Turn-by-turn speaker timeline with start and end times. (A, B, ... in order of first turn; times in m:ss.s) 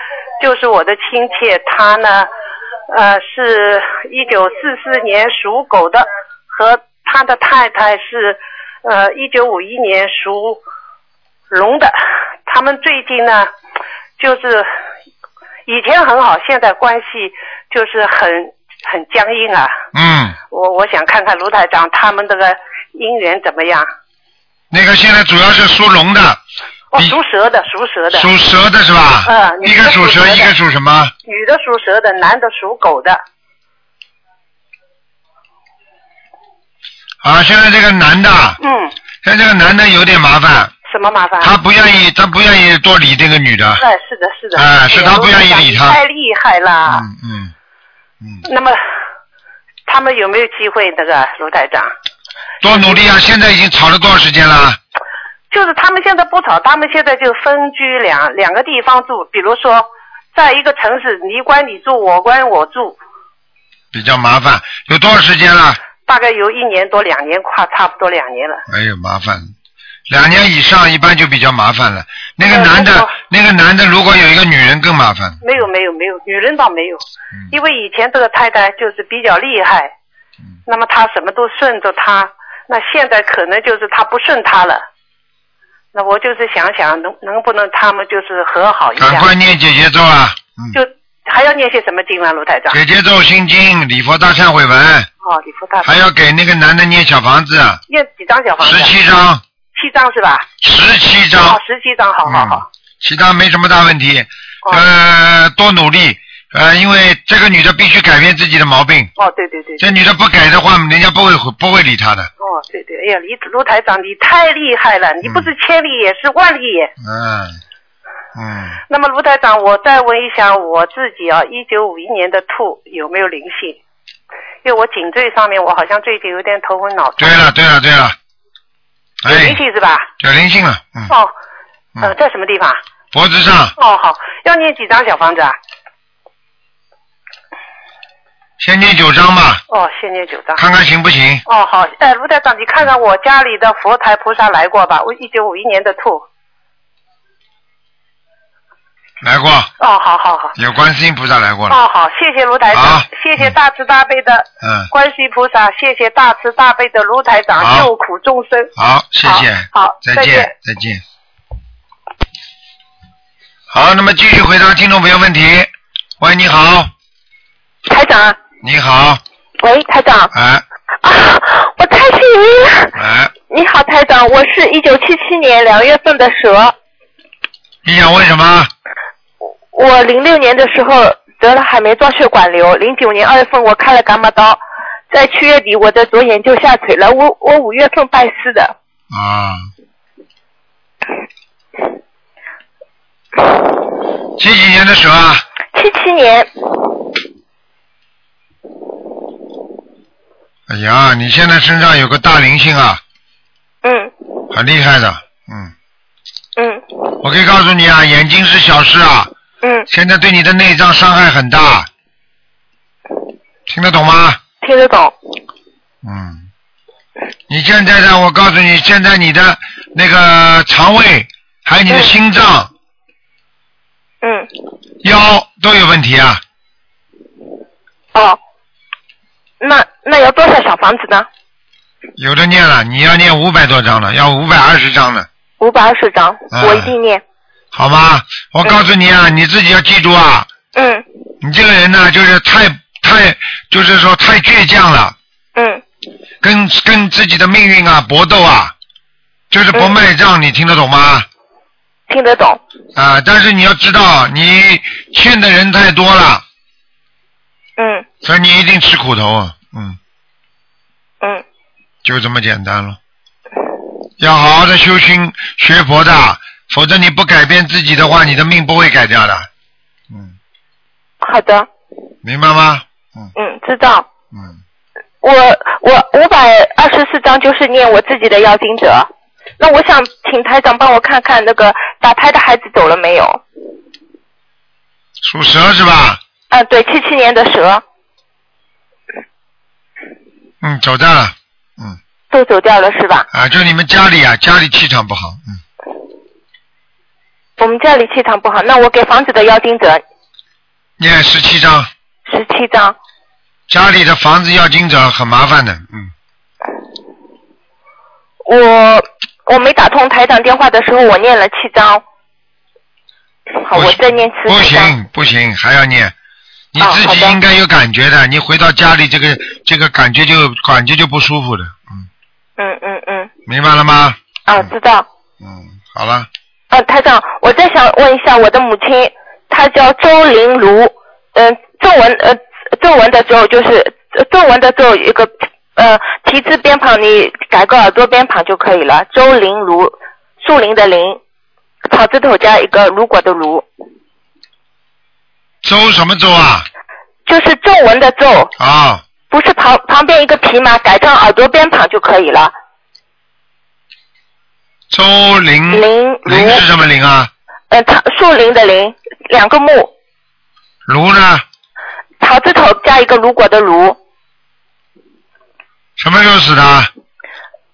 0:00.4-0:02.3 A
0:02.9-0:10.6 A
0:11.5-0:11.9 A
0:12.5-0:13.5 A
0:14.2-0:14.7 A
0:15.7-0:19.7 A
0:19.9-0:20.4 B
0:20.5-0:23.9 A
0:24.7-0:26.4 B
0:26.9-0:28.3 A
0:28.1-0:31.1 B
0:29.3-0:30.5 A
0:31.3-0:33.2 A
0:37.2-0:38.6 B
0:38.6-0:38.9 A
0:39.2-0:40.7 B
0:40.9-0:41.5 A
0:41.4-0:43.8 B
0:43.8-0:47.0 A
0:44.6-0:46.0 B
0:46.9-0:47.5 B
0:48.4-0:48.8 A
0:49.9-0:51.9 A
0:52.6-0:54.8 B
0:52.6-0:53.0 A
0:55.5-1:03.0 A
1:03.9-1:05.8 B
1:06.0-1:08.6 A
1:08.7-1:09.5 B
1:10.1-1:15.4 B
1:12.4-1:13.1 A
1:15.4-1:19.9 A
1:20.7-1:24.8 A
1:25.9-1:29.3 A
1:29.0-1:30.8 B
1:30.7-1:32.8 A
1:32.7-1:35.1 B
1:35.2-1:35.9 A
1:35.8-1:37.8 B
1:37.9-1:38.9 A
1:38.6-1:39.4 B
1:39.8-1:40.5 A
1:40.6-1:41.6 B
1:41.4-1:42.7 A
1:42.2-1:49.1 B
1:49.2-1:49.9 A
1:49.8-1:52.3 B
1:52.4-1:56.9 A
1:55.2-1:55.5 B
1:57.0-1:57.6 B
1:58.4-1:58.8 B
1:58.9-2:03.8 A
2:04.6-2:07.4 A
2:07.2-2:08.2 B
2:09.2-2:09.6 B
2:09.3-2:10.1 A
2:10.2-2:11.1 B
2:12.0-2:12.8 A
2:13.1-2:13.7 B
2:13.8-2:15.6 A
2:18.6-2:19.6 B
2:19.7-2:20.6 A
2:20.6-2:21.4 B
2:21.5-2:26.3 A
2:29.2-2:29.7 B
2:29.8-2:30.6 A
2:30.6-2:31.8 B
2:31.7-2:38.7 A
2:32.7-2:33.5 B
2:34.6-2:34.9 B
2:37.6-2:37.9 B
2:38.8-2:41.0 B
2:39.2-2:40.5 A
2:43.7-2:46.9 B
2:47.9-2:48.4 C
2:48.6-2:49.2 B
2:49.6-2:50.3 C
2:50.3-2:50.6 B
2:51.0-2:53.0 C
2:53.0-2:53.3 B
2:53.5-2:56.8 C
2:57.8-2:58.7 B
2:59.7-3:08.8 C
3:09.1-3:09.7 B
3:14.4-3:15.4 B
3:15.7-3:16.5 C
3:20.7-3:23.0 B
3:23.8-3:24.1 C
3:24.5-3:25.7 B
3:26.6-3:27.0 C
3:27.2-3:29.3 B
3:29.6-3:29.9 C
3:29.9-3:31.9 B
3:33.7-3:34.4 B
3:34.6-3:35.2 C
3:36.0-3:36.5 B
3:37.5-3:42.7 B
3:44.2-3:44.5 C
3:45.0-3:46.4 B
3:48.1-3:48.4 C
3:49.6-3:51.3 C
3:52.2-3:55.3 B
3:55.6-3:57.2 C
3:56.5-3:56.9 B
3:57.7-4:00.5 B
4:00.7-4:01.1 C
4:01.4-4:05.2 B
4:05.6-4:05.8 C
4:06.4-4:08.7 B
4:09.5-4:11.3 B
4:09.7-4:10.0 C
4:12.1-4:12.6 C
4:13.0-4:16.4 B
4:17.8-4:18.1 C
4:18.2-4:20.0 B
4:22.0-4:23.0 B
4:24.2-4:29.5 B
4:31.2-4:31.7 C
4:32.2-4:33.3 B
4:33.4-4:34.1 C
4:34.3-4:34.6 B
4:35.2-4:43.4 C
4:45.2-4:46.2 B
4:46.5-4:47.8 C
4:50.6-4:52.0 B
4:52.3-4:53.3 C
4:53.3-4:55.6 B
4:57.6-5:00.0 C
5:01.0-5:01.9 B
5:02.3-5:03.0 C
5:03.7-5:06.1 B
5:08.5-5:12.0 C
5:13.6-5:14.9 C
5:13.7-5:16.1 B
5:16.7-5:22.1 B
5:16.8-5:17.4 C
5:22.6-5:23.3 C
5:23.5-5:24.7 B
5:24.5-5:25.1 C
5:25.4-5:26.3 B
5:26.7-5:41.2 C
5:41.9-5:43.7 C
5:45.6-5:46.7 B
5:47.3-5:48.5 C
5:48.6-5:49.0 B
5:49.3-5:52.6 C
5:54.9-5:57.3 B
5:55.7-5:56.6 C
5:57.7-5:59.9 C
6:00.9-6:01.4 B
6:02.2-6:04.0 C
6:06.0-6:06.9 B